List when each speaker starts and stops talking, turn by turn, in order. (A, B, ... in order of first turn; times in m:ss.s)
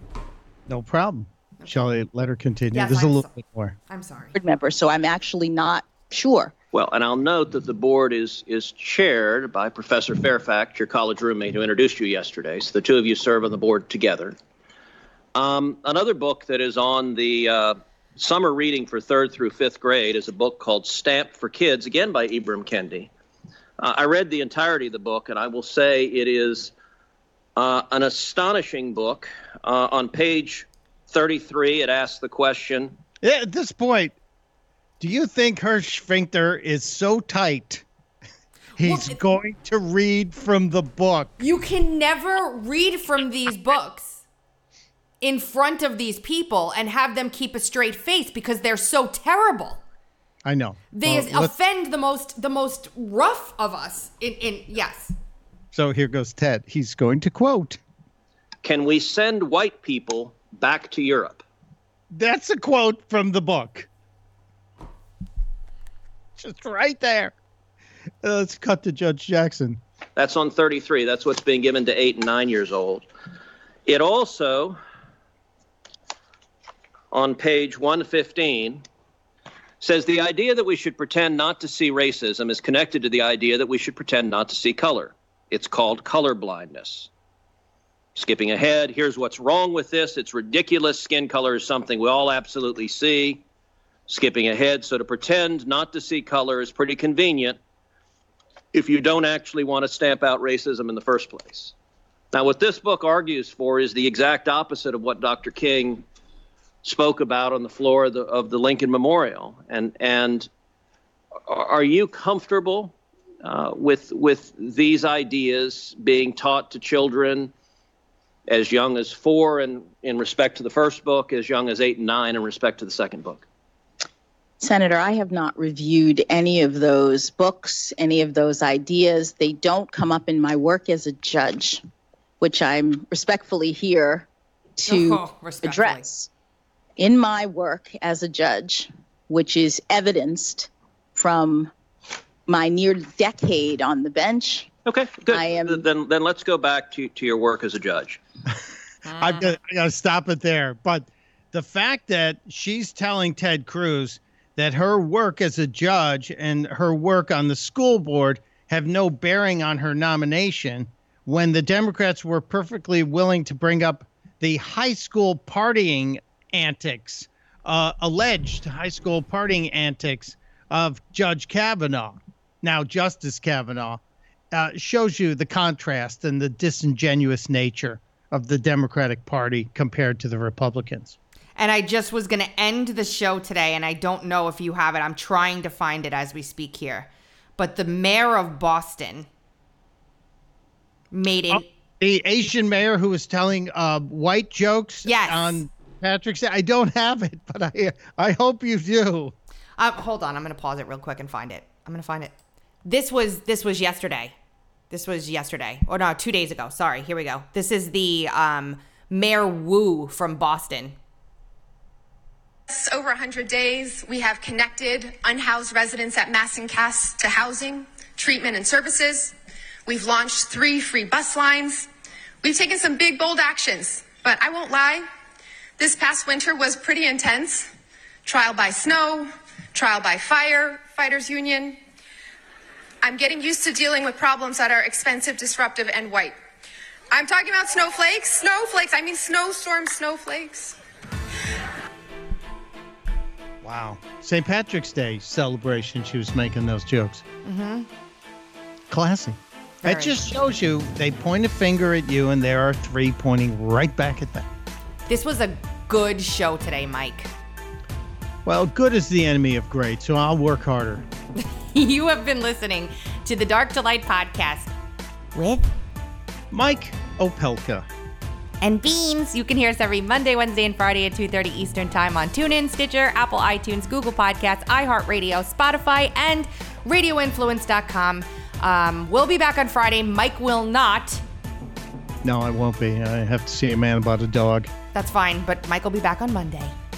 0:00.7-0:03.8 A
0:02.7-0:03.4 B
0:03.9-0:04.4 B
0:04.4-0:06.5 C
0:06.7-0:14.4 D
0:15.4-0:23.1 D
0:23.8-0:26.7 D
0:27.6-0:33.0 D
0:33.2-0:34.2 A
0:35.0-0:37.8 A
0:38.8-0:41.3 A
0:38.8-0:39.2 B
0:41.4-0:44.2 B
0:45.2-0:49.8 B
0:50.4-0:51.5 A
0:50.9-0:55.1 B
0:55.7-0:57.8 A
0:58.6-1:01.4 D
1:02.1-1:03.9 A
1:06.4-1:07.3 A
1:08.2-1:09.8 A
1:10.2-1:13.1 D
1:13.9-1:14.8 D
1:17.1-1:18.8 D
1:19.8-1:27.1 D
1:28.2-1:33.4 D
1:34.1-1:37.6 D
1:38.7-1:41.7 D
1:42.3-1:46.0 D
1:46.8-1:50.5 D
1:51.5-1:57.5 D
1:58.5-2:03.5 D
2:04.6-2:11.8 C
2:12.4-2:16.3 C
2:14.9-2:16.1 B
2:17.0-2:21.7 C
2:22.5-2:24.7 C
2:24.9-2:28.2 D
2:25.3-2:25.8 C
2:29.0-2:29.5 B
2:29.2-2:54.0 A
2:54.5-3:01.2 A
3:01.6-3:09.3 B
3:11.1-3:11.7 B
3:11.5-3:19.4 A
3:15.0-3:15.6 B
3:19.8-3:22.3 B
3:22.8-3:24.3 B
3:24.9-3:31.0 B
3:32.7-3:39.4 E
3:39.9-3:41.9 E
3:42.4-3:45.1 E
3:45.8-3:47.7 E
3:48.2-3:51.8 E
3:53.0-3:56.4 E
3:57.1-4:00.8 E
4:03.6-4:07.2 A
4:07.4-4:07.9 B
4:08.9-4:14.5 A
4:09.8-4:10.2 B
4:15.1-4:17.3 B
4:18.4-4:21.1 A
4:21.4-4:24.7 B
4:25.4-4:25.7 B
4:26.5-4:27.9 A
4:28.6-4:41.2 B
4:42.2-4:44.7 A
4:44.9-4:46.8 B